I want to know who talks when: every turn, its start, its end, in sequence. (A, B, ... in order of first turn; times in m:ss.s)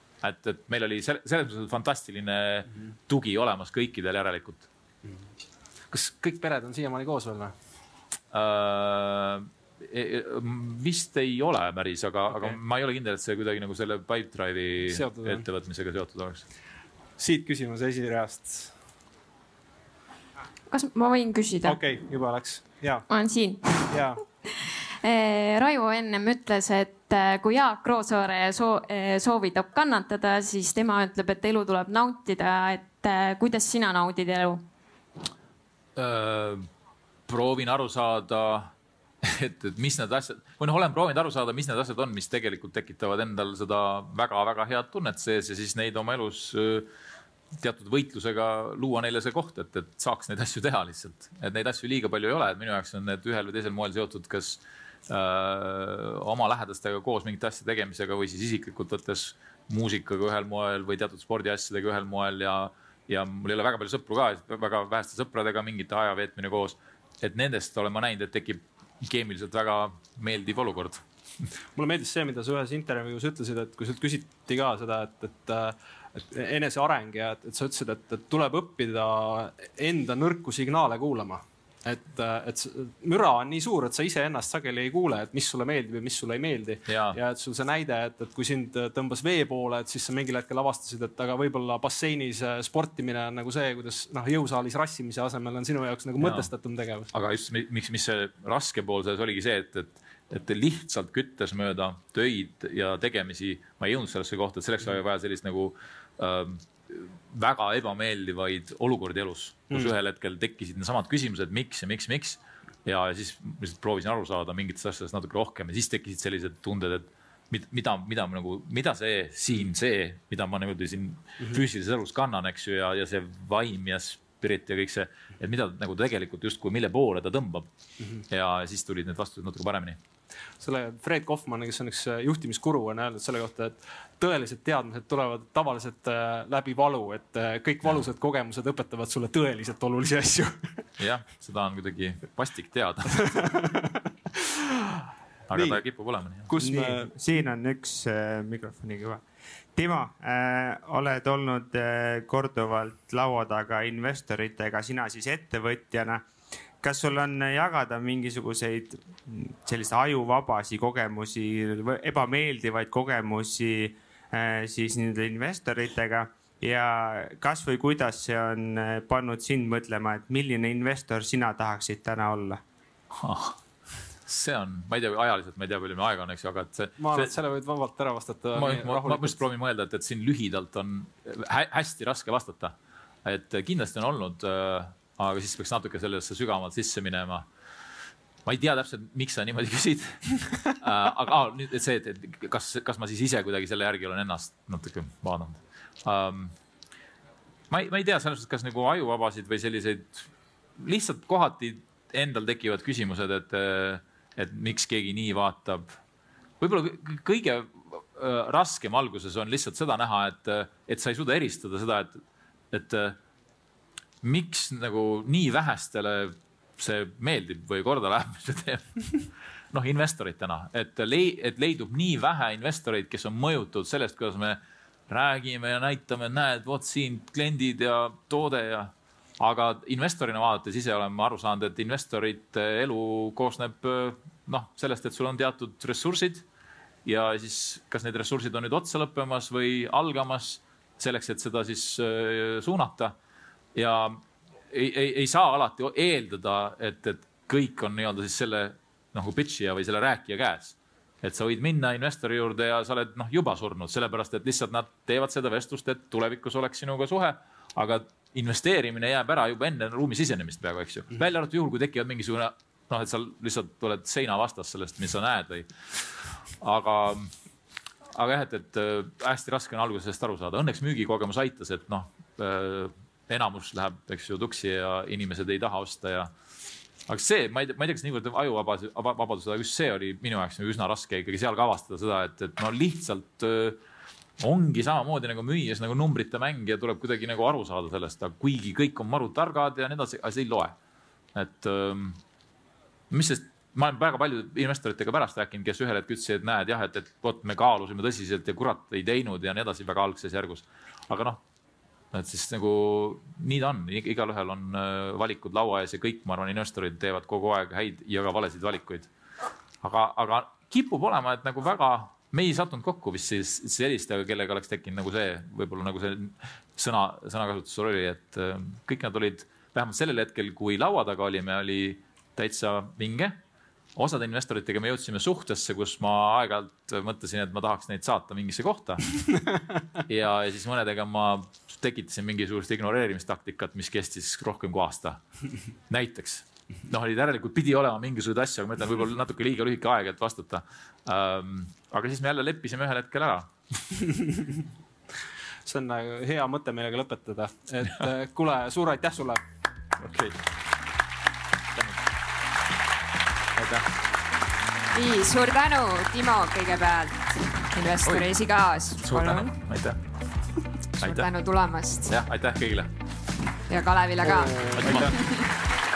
0:00.2-0:04.7 A
0:05.9-0:07.5 B
0:08.3-0:16.4 A
0:14.8-0:15.4 B
0:17.2-0:18.7 B
0:20.7-0:21.8 C
0:21.6-0:23.0 B
0:23.1-0:24.0 C
0:23.9-0:24.2 B
0:25.0-0:34.6 C
0:36.0-0:36.7 A
0:37.3-0:46.9 A
0:47.5-1:11.0 A
1:11.8-1:37.1 B
1:26.9-1:27.2 A
1:36.2-1:36.5 A
1:37.1-2:07.7 A
2:08.3-2:10.0 A
2:10.6-2:20.8 B
2:21.0-2:23.2 A
2:23.1-2:25.8 B
2:25.5-2:26.5 A
2:26.5-2:27.1 B
2:26.6-2:29.2 D
2:29.7-2:36.3 D
2:36.8-2:52.6 D
2:53.1-2:53.6 A
2:54.2-2:57.3 A
2:57.0-2:59.4 B
2:58.6-3:07.5 A
3:08.4-3:16.5 A
3:17.7-3:26.0 A
3:26.6-3:33.2 A
3:34.2-3:56.4 A
3:57.0-4:03.1 A
4:03.7-4:26.0 A
4:26.6-4:27.3 A
4:28.1-4:36.3 A
4:37.1-4:43.8 A
4:44.4-4:50.8 A
4:51.3-4:52.2 A
4:53.1-5:01.4 A
5:02.1-5:09.1 A
5:09.8-5:23.4 A
5:24.0-5:29.1 A
5:30.0-5:35.2 A
5:35.9-5:43.5 A
5:44.0-5:44.6 B
5:45.6-5:49.4 B
5:50.0-5:50.4 A
5:53.5-5:53.9 A
5:54.9-5:59.5 E
5:58.0-5:58.3 A
5:59.0-6:00.0 A
6:01.0-6:02.1 E
6:01.0-6:01.3 A
6:02.1-6:02.9 A
6:03.7-6:05.5 E
6:04.2-6:05.1 B
6:04.7-6:05.2 A